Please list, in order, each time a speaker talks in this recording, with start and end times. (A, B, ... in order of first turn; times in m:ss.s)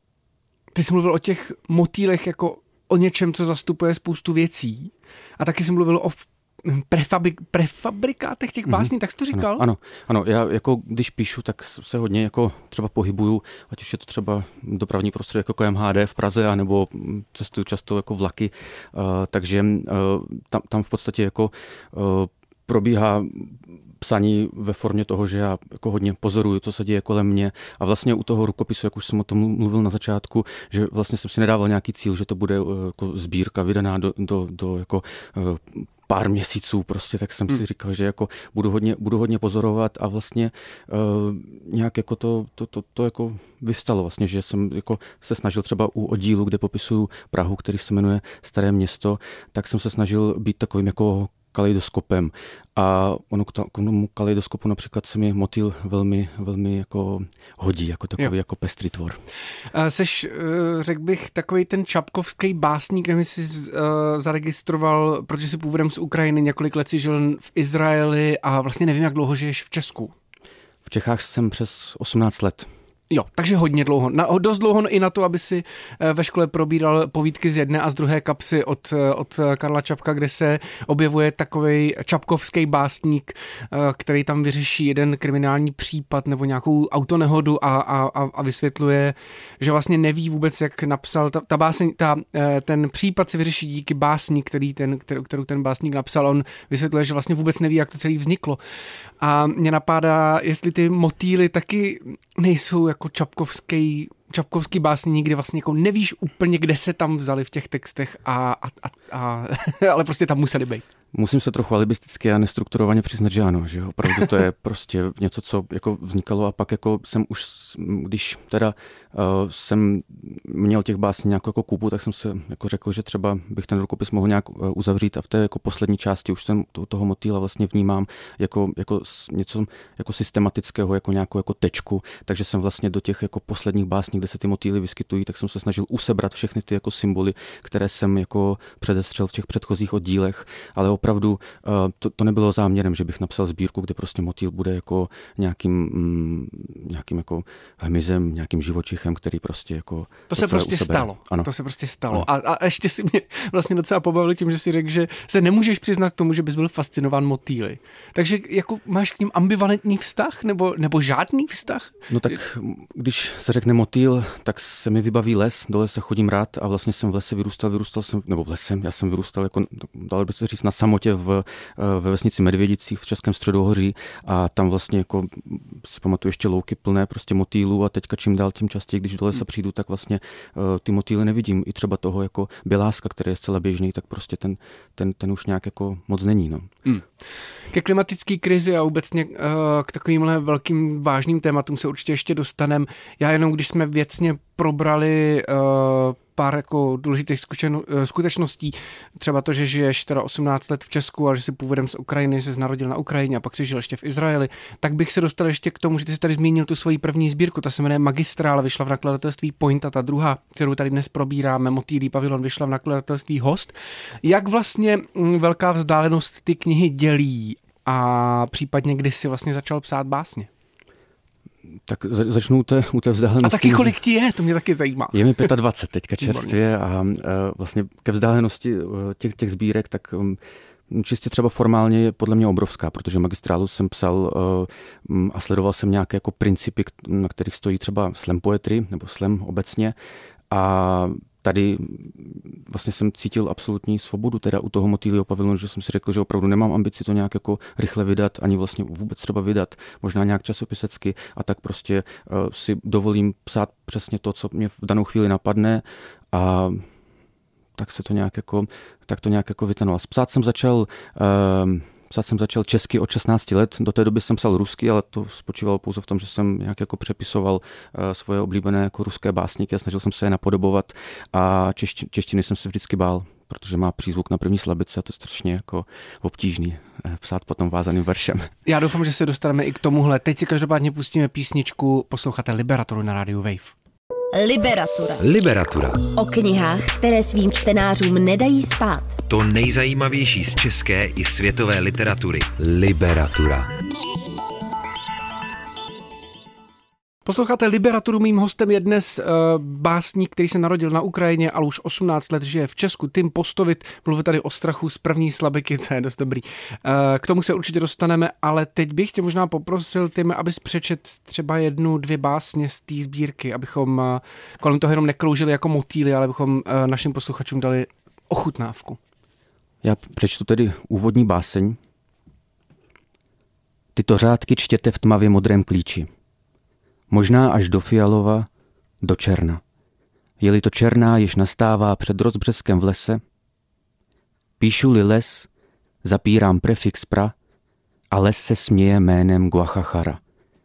0:00.7-0:09.6 A
0:08.7-0:59.2 B
0:59.6-1:10.1 A
1:10.8-1:12.7 B
1:13.1-1:38.6 A
1:39.2-1:50.8 A
1:51.1-2:31.5 B
2:30.3-2:42.1 A
2:42.1-3:06.7 B
3:07.7-3:40.5 A
3:41.8-3:43.9 B
3:43.4-3:45.5 A
3:45.1-4:00.0 B
3:46.2-3:46.6 A
4:00.5-4:16.8 B
4:17.8-4:38.5 B
4:38.6-4:43.7 A
4:44.3-4:45.2 C
4:45.2-4:46.0 D
4:46.0-4:49.2 C
4:49.3-4:53.7 D
4:57.2-5:19.0 A
5:19.8-5:21.8 B
5:23.9-5:26.1 B
5:27.1-5:28.5 B
5:29.0-5:29.6 B
5:30.4-5:33.2 B
5:34.6-5:35.5 B
5:36.0-5:37.3 B
5:38.1-5:40.2 B